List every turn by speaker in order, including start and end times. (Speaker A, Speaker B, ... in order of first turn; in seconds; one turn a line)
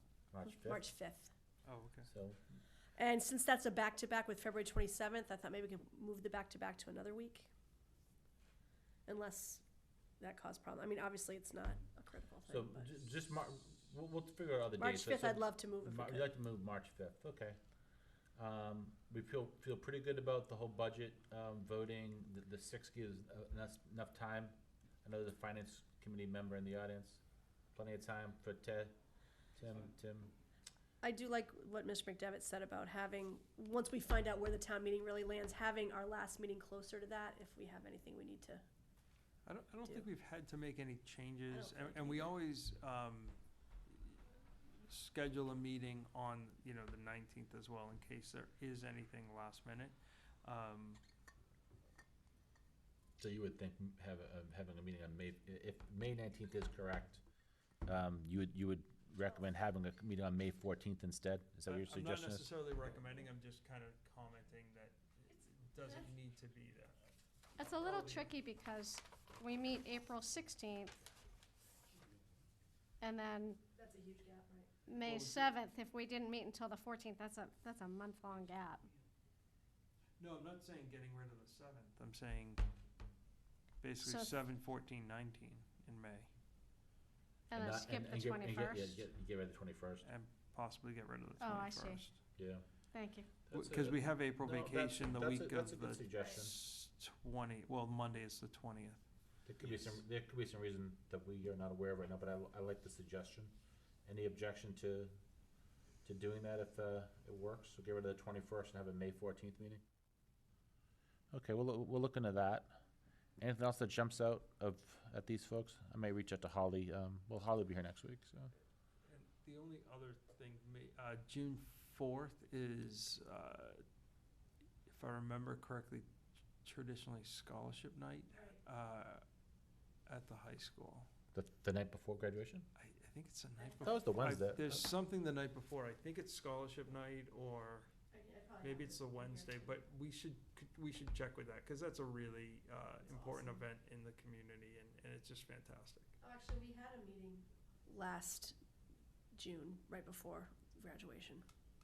Speaker A: 0.3-0.9
Speaker B: 0.4-1.3
Speaker C: 1.6-2.1
Speaker A: 2.0-2.4
Speaker B: 3.0-7.5
Speaker B: 9.1-9.6
Speaker B: 10.2-13.0
Speaker A: 12.5-17.6
Speaker B: 14.8-16.3
Speaker A: 18.4-27.2
Speaker A: 27.8-28.9
Speaker A: 29.6-30.3
Speaker B: 31.0-38.6
Speaker C: 39.5-43.4
Speaker B: 41.5-42.3
Speaker C: 43.9-44.2
Speaker C: 44.7-51.0
Speaker A: 53.2-57.2
Speaker A: 57.9-62.5
Speaker C: 61.7-67.0
Speaker D: 67.6-71.0
Speaker C: 67.7-68.3
Speaker D: 73.0-73.6
Speaker B: 73.8-74.7
Speaker D: 74.9-78.9
Speaker C: 75.0-75.5
Speaker C: 80.2-82.6
Speaker C: 83.8-86.3
Speaker D: 84.0-84.4
Speaker D: 87.5-89.0
Speaker A: 87.5-90.1
Speaker C: 90.0-92.2
Speaker D: 91.4-92.0
Speaker A: 92.4-92.6
Speaker D: 92.9-93.3
Speaker A: 93.5-96.6
Speaker C: 93.5-99.0
Speaker A: 99.5-103.5
Speaker C: 99.6-100.0
Speaker A: 104.1-105.1
Speaker A: 106.0-109.8
Speaker A: 111.3-112.8
Speaker A: 113.4-118.5
Speaker C: 119.0-123.8
Speaker C: 124.9-126.1
Speaker C: 126.6-129.2
Speaker B: 128.3-128.6
Speaker C: 130.1-131.1
Speaker A: 131.3-132.7
Speaker C: 132.8-137.9
Speaker B: 133.6-133.9
Speaker A: 133.8-134.9
Speaker B: 138.1-139.8
Speaker C: 138.6-146.1
Speaker B: 143.1-143.6
Speaker B: 146.2-148.6
Speaker B: 149.3-151.4